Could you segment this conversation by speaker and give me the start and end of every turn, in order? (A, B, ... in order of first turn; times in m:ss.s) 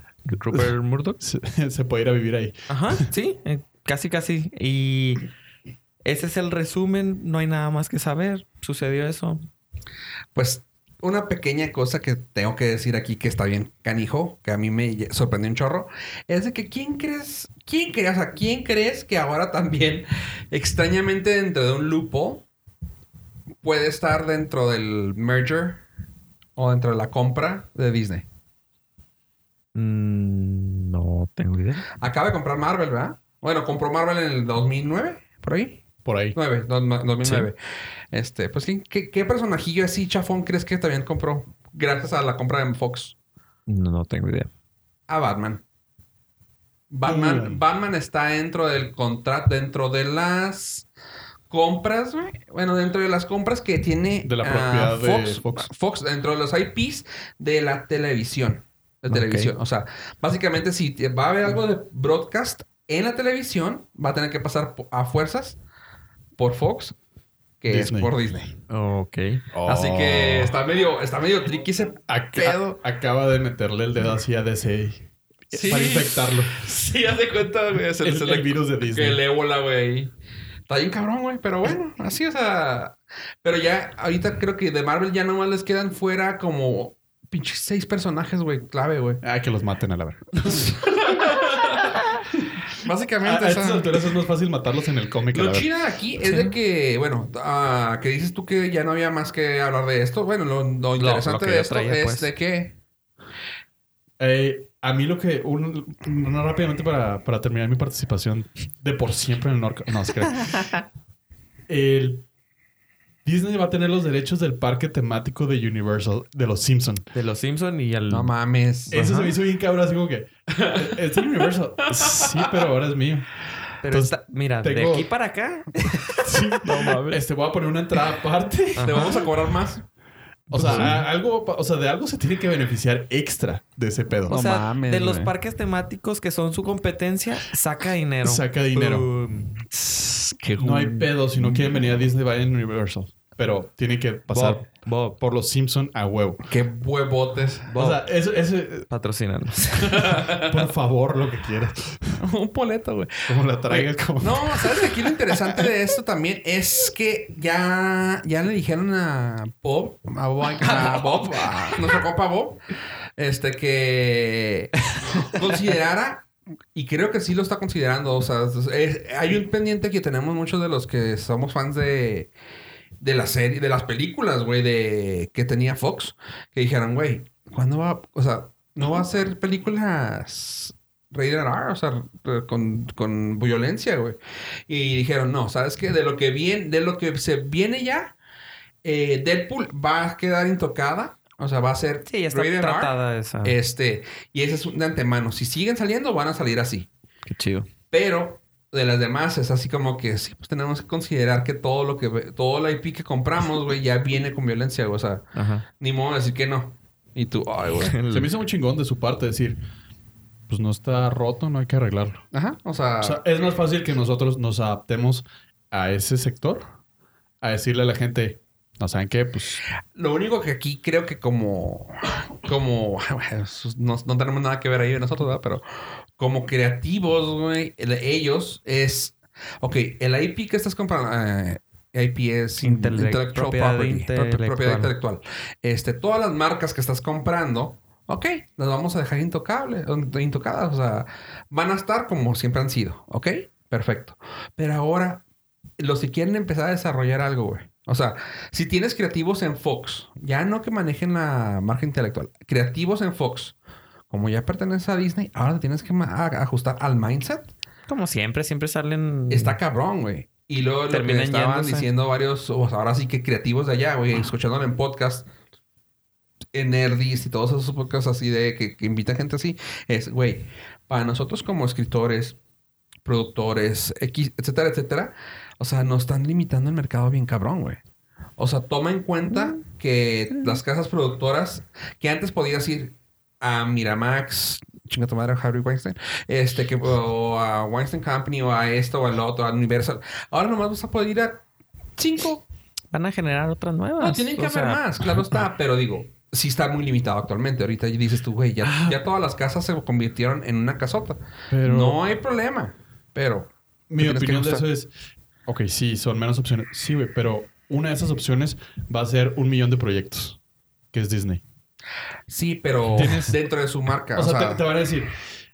0:00.3-0:01.2 A
0:00.5-0:03.0 B
0:02.7-0:05.2 A
0:06.0-0:09.4 A
0:10.3-0:22.4 C
0:23.6-0:25.8 C
0:26.6-0:28.2 C
0:29.7-0:31.8 A
0:32.0-0:37.6 C
0:36.0-0:36.4 B
0:37.2-0:37.5 A
0:38.1-0:43.1 C
0:43.7-0:44.5 A
0:45.1-0:45.6 C
0:46.9-0:50.9 C
0:47.0-0:47.6 B
0:51.5-1:05.6 C
0:54.2-0:55.7 B
0:59.1-0:59.5 A
1:06.4-1:06.9 C
1:07.6-1:08.5 C
1:07.7-1:08.1 B
1:08.7-1:09.4 A
1:09.5-1:10.5 B
1:09.6-1:12.8 C
1:12.1-1:16.6 B
1:15.5-1:20.1 C
1:18.0-1:19.2 B
1:20.7-1:29.2 C
1:29.2-1:30.7 B
1:30.4-1:32.0 C
1:32.7-1:34.1 C
1:33.2-1:35.7 B
1:35.3-1:42.8 C
1:36.2-1:36.5 A
1:41.0-1:42.3 A
1:44.2-1:50.8 B
1:51.7-1:52.2 B
1:53.2-1:57.1 B
1:57.1-1:58.3 A
1:58.1-1:59.0 C
1:58.9-1:59.3 A
1:58.9-2:03.3 B
2:00.5-2:01.0 C
2:01.8-2:02.5 C
2:03.8-2:07.2 A
2:03.9-2:05.1 B
2:06.1-2:09.3 B
2:08.7-2:09.2 A
2:08.8-2:09.8 C
2:10.5-2:14.4 B
2:10.5-2:11.1 A
2:14.3-2:19.6 A
2:14.3-2:15.3 C
2:18.2-2:19.1 B
2:19.7-2:21.8 C
2:20.6-2:24.6 B
2:24.3-2:25.2 A
2:25.2-2:26.5 B
2:26.5-2:27.7 C
2:27.7-2:28.0 A
2:27.7-2:28.9 B
2:28.9-2:30.1 A
2:29.9-2:30.6 C
2:30.1-2:32.2 B
2:32.2-2:42.6 C
2:33.3-2:35.7 B
2:40.6-2:42.0 A
2:43.2-2:52.3 C
2:53.0-3:04.2 C
3:04.7-3:08.1 C
3:08.8-3:16.9 C
3:12.0-3:13.6 A
3:17.3-3:17.7 A
3:17.9-3:25.2 C
3:25.3-3:25.6 A
3:25.8-3:28.0 C
3:27.8-3:28.3 A
3:28.1-3:29.6 B
3:30.5-3:32.2 B
3:32.3-3:33.2 C
3:33.0-3:36.6 B
3:37.4-3:39.6 B
3:39.9-3:45.6 C
3:46.2-4:05.2 C
3:52.6-3:54.9 A
4:05.8-4:13.6 C
4:14.1-4:17.5 C
4:17.9-4:19.6 A
4:19.3-4:25.3 C
4:20.9-4:21.9 A
4:26.5-4:32.4 C
4:33.0-4:37.8 C
4:38.4-4:51.4 C
4:52.0-4:52.4 C
4:52.9-4:54.8 A
4:54.0-5:04.6 C
4:58.6-4:59.0 B
5:01.5-5:02.0 B
5:03.9-5:04.9 B
5:05.4-5:10.4 B
5:10.9-5:11.4 B
5:12.3-5:14.6 C
5:12.9-5:13.4 B
5:14.1-5:15.1 B